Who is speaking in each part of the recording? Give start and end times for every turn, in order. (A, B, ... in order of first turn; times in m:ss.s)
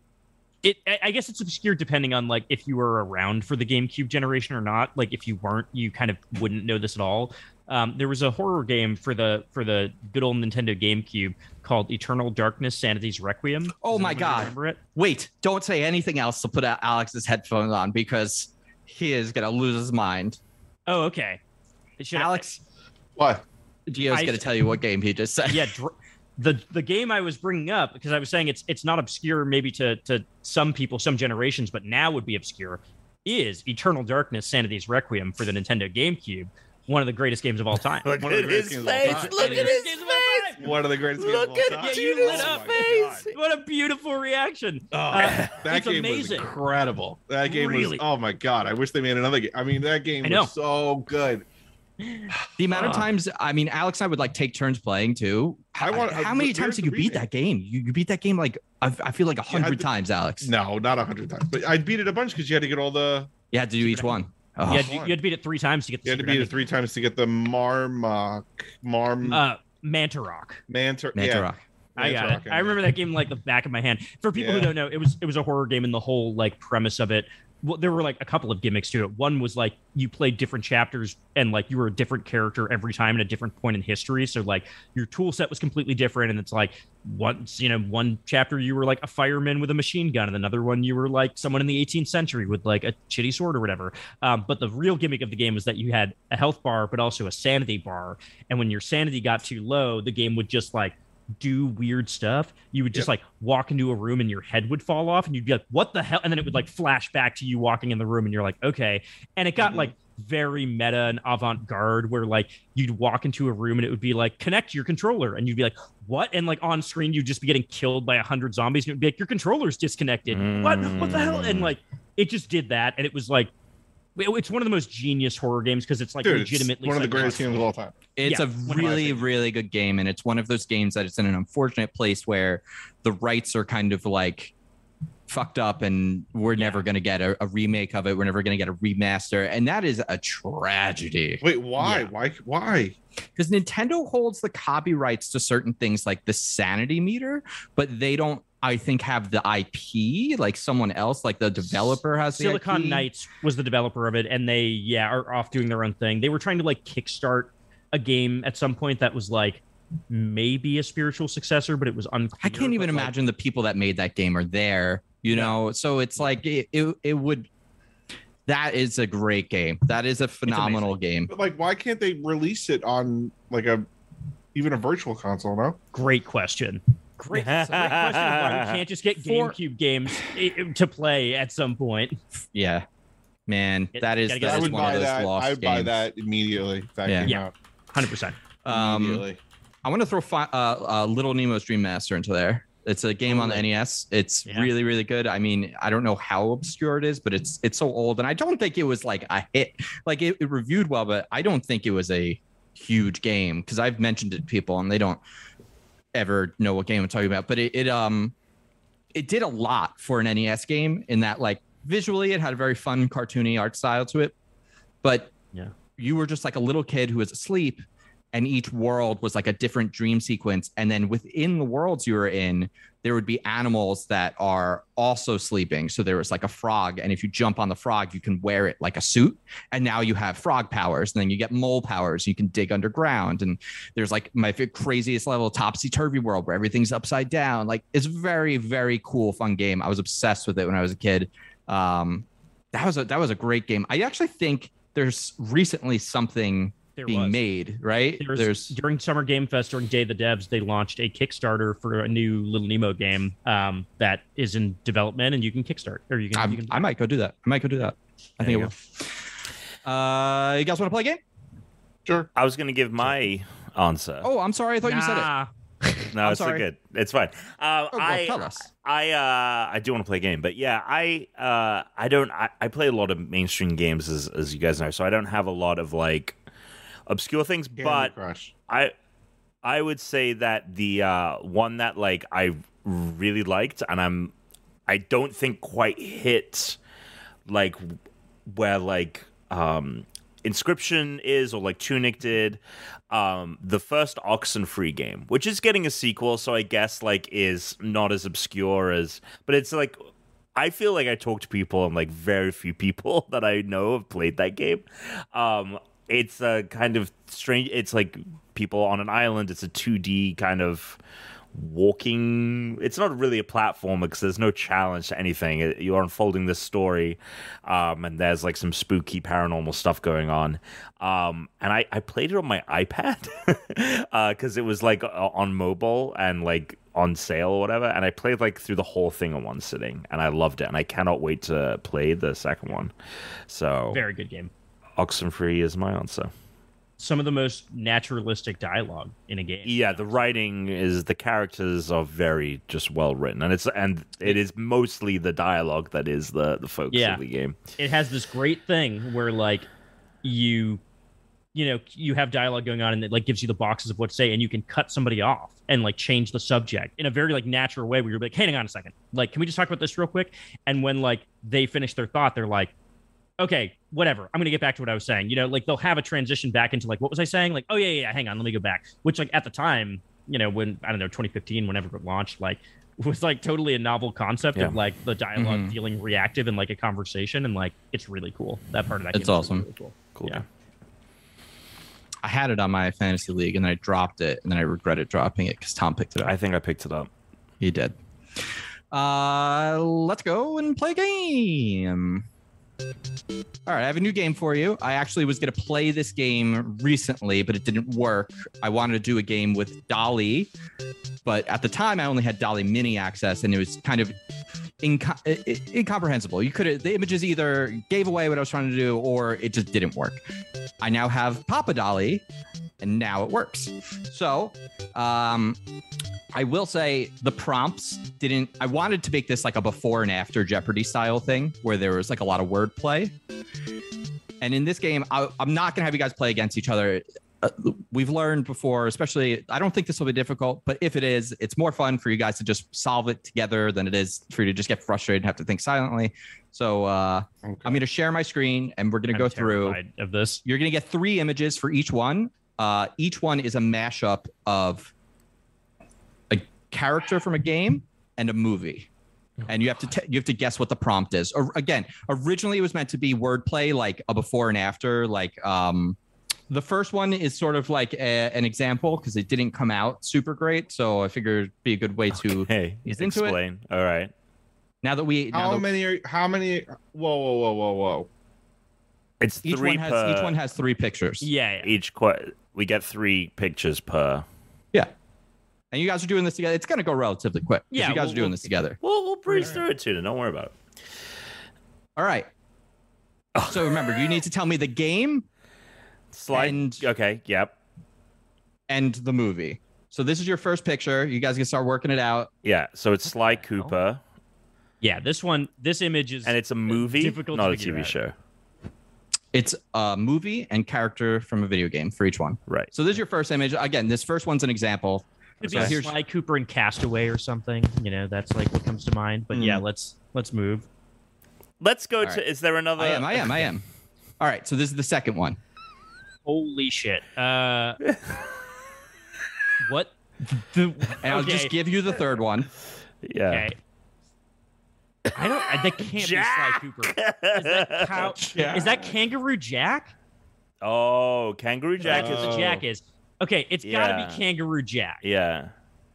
0:00.6-0:14.8 A
0:13.8-0:20.4 B
0:20.9-0:21.4 A
0:22.0-0:22.4 A
0:22.2-0:22.6 B
0:23.2-0:23.4 C
0:23.9-0:25.8 B
0:24.1-0:24.5 A
0:25.5-0:38.1 A
0:38.0-0:40.5 D
0:38.1-0:39.8 C
0:39.0-0:40.7 A
0:40.6-0:43.3 C
0:41.2-0:43.4 D
0:41.7-0:46.5 A
0:44.9-0:51.4 C
0:45.2-0:45.5 D
0:47.4-0:48.0 A
0:50.2-0:50.5 A
0:52.0-0:53.0 A
0:52.6-1:00.5 B
0:52.8-0:53.0 C
0:55.8-0:57.2 C
0:59.5-0:59.9 C
1:00.4-1:03.3 C
1:03.5-1:05.0 B
1:03.8-1:04.2 A
1:04.7-1:06.6 A
1:04.7-1:05.1 C
1:06.0-1:09.4 C
1:09.2-1:10.6 A
1:10.7-1:12.8 C
1:11.2-1:11.6 B
1:12.0-2:03.5 A
1:14.4-1:14.7 C
1:49.6-1:49.9 C
2:00.3-2:01.7 D
2:04.2-2:07.6 A
2:06.2-2:08.0 C
2:08.2-2:14.5 B
2:08.2-2:09.2 A
2:15.3-2:21.4 B
2:16.6-2:16.8 A
2:21.4-2:23.0 C
2:21.8-2:22.1 A
2:23.4-2:33.1 B
2:32.4-2:43.1 A
2:42.4-2:47.5 B
2:45.3-2:45.6 A
2:48.5-2:51.3 B
2:50.5-2:51.0 A
2:51.3-2:53.9 C
2:54.6-2:55.8 C
2:55.9-3:02.2 A
2:57.3-2:58.8 D
2:59.2-2:59.6 B
3:02.5-3:02.9 B
3:03.5-3:06.1 B
3:04.0-3:05.1 A
3:04.4-3:07.5 C
3:07.0-3:07.3 B
3:07.2-3:08.4 A
3:08.6-3:09.2 B
3:08.7-3:09.4 C
3:09.8-3:25.2 B
3:13.3-3:13.6 C
3:26.1-3:28.3 B
3:29.1-3:34.3 B
3:35.0-3:35.3 B
3:36.0-4:08.8 B
4:07.0-4:07.4 A
4:08.2-4:16.8 A
4:16.3-4:19.2 B
4:18.4-4:18.7 D
4:19.8-4:21.2 B
4:22.4-4:24.3 D
4:24.2-4:25.3 B
4:24.8-4:26.0 A
4:26.1-4:36.4 D
4:26.2-4:26.6 B
4:27.9-4:28.6 B
4:37.1-4:38.1 D
4:37.8-4:38.5 C
4:38.7-4:38.9 D
4:39.6-4:44.3 D
4:44.9-4:46.8 D
4:47.5-4:48.0 D
4:48.5-4:52.6 D
4:53.1-5:00.0 D
5:00.6-5:11.0 D
5:11.5-5:32.9 D
5:33.5-5:34.0 D
5:33.9-5:34.5 A
5:35.0-5:36.3 D
5:37.0-5:40.3 A
5:39.6-5:47.6 D
5:46.9-5:47.2 A
5:47.8-5:49.7 A
5:50.2-5:50.8 A
5:51.5-6:02.7 A
6:03.4-6:20.4 A
6:15.4-6:15.8 B
6:19.1-6:19.6 B
6:20.2-6:20.4 D
6:22.2-6:26.3 B
6:26.2-6:27.1 D
6:27.6-6:28.0 B
6:28.9-6:32.2 B
6:33.7-6:40.5 B
6:41.2-6:44.2 B
6:44.8-6:50.2 B
6:50.8-6:52.2 B
6:52.8-6:55.6 B
6:56.3-7:03.2 B
7:04.4-7:19.8 B
7:17.4-7:17.8 C
7:19.1-7:20.4 A
7:20.4-7:24.9 B
7:26.3-7:28.9 B
7:29.5-7:36.0 B
7:36.5-7:43.4 B
7:42.1-7:44.1 D
7:44.8-7:45.7 B
7:45.3-7:48.1 C
7:49.2-7:50.4 D
7:49.4-7:51.3 B
7:51.2-7:51.7 A
7:51.6-7:54.2 D
7:55.7-7:58.8 B
7:57.7-7:58.5 A
7:58.8-8:00.6 D
7:59.3-7:59.6 A
8:02.0-8:02.3 B
8:03.4-8:03.9 D
8:03.5-8:05.2 B
8:06.1-8:07.6 D
8:06.3-8:06.8 B
8:08.7-8:12.3 B
8:12.4-8:14.0 D
8:14.8-8:18.0 A
8:16.2-8:18.1 D
8:19.3-8:26.0 B
8:22.5-8:22.7 D
8:25.4-8:30.7 A
8:25.4-8:25.8 D
8:31.6-8:33.4 D
8:32.8-8:33.6 B
8:34.2-8:35.4 B
8:36.3-8:37.8 A
8:39.6-8:41.5 A
8:41.0-8:42.5 B
8:43.0-8:43.5 D
8:43.3-8:43.6 A
8:45.1-8:49.9 A
8:45.5-8:48.2 D
8:48.3-8:48.7 B
8:48.4-8:48.8 C
8:50.6-8:52.5 D
8:51.8-8:55.0 A
8:51.8-8:52.6 C
8:53.6-8:54.2 D
8:55.0-8:55.5 D